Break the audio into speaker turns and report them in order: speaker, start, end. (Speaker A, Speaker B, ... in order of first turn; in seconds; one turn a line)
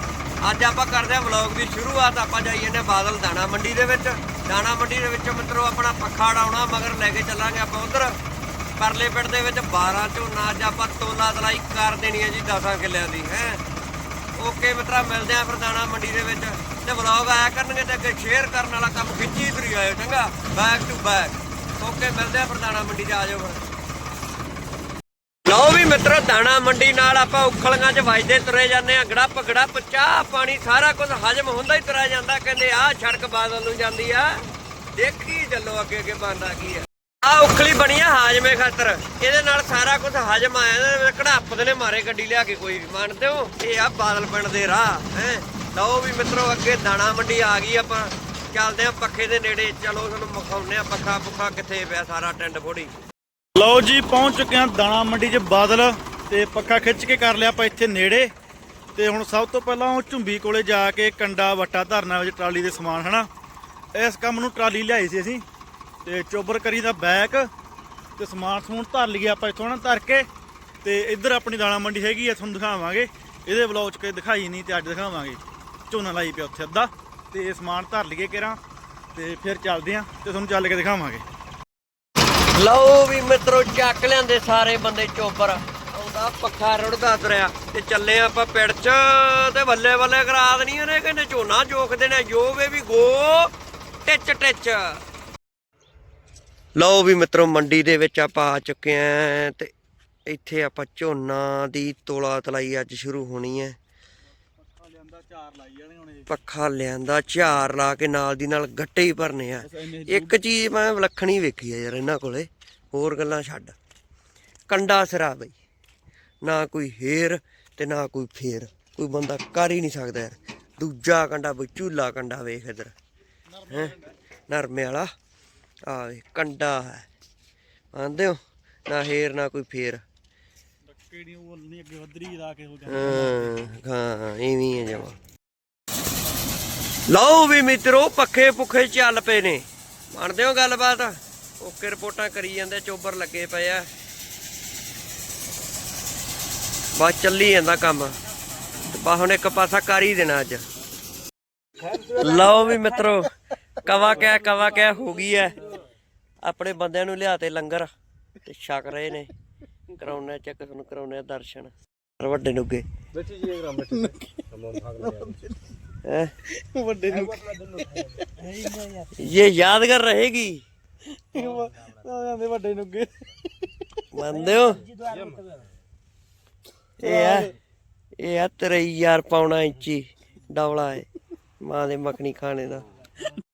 Speaker A: 0.4-8.2
Speaker A: 8.8-13.6
Speaker A: 14.3-23.6
Speaker A: 25.4-34.4
Speaker A: 34.9-52.9
Speaker B: 53.5-58.3
Speaker B: 58.9-63.3
Speaker B: 63.9-65.4
Speaker B: 66.0-67.5
Speaker B: 68.2-70.3
Speaker B: 70.8-78.6
Speaker B: 79.1-81.2
Speaker A: 82.5-93.5
Speaker A: 94.0-95.0
Speaker A: 96.8-99.7
Speaker A: 100.3-103.8
Speaker B: 104.6-106.3
Speaker A: 106.3-113.7
Speaker B: 109.6-110.4
Speaker A: 114.7-115.5
Speaker A: 116.4-122.9
Speaker B: 123.5-124.1
Speaker A: 123.7-123.9
Speaker A: 124.5-125.1
Speaker A: 125.9-127.1
Speaker A: 127.9-130.0
Speaker B: 130.9-133.6
Speaker A: 132.9-135.2
Speaker A: 137.1-143.9
Speaker A: 146.9-148.2
Speaker A: 148.8-150.6
Speaker C: 151.8-152.6
Speaker A: 152.2-155.7
Speaker A: 156.4-157.9
Speaker A: 158.4-159.3
Speaker A: 159.9-162.8
Speaker C: 163.1-165.4
Speaker B: 165.0-165.5
Speaker A: 166.0-166.3
Speaker B: 166.5-167.5
Speaker C: 167.1-168.8
Speaker A: 169.1-170.6
Speaker B: 171.3-173.3
Speaker A: 174.1-174.9
Speaker C: 174.7-175.7
Speaker A: 177.0-177.5
Speaker B: 177.0-177.5
Speaker A: 178.2-181.1
Speaker A: 181.6-182.9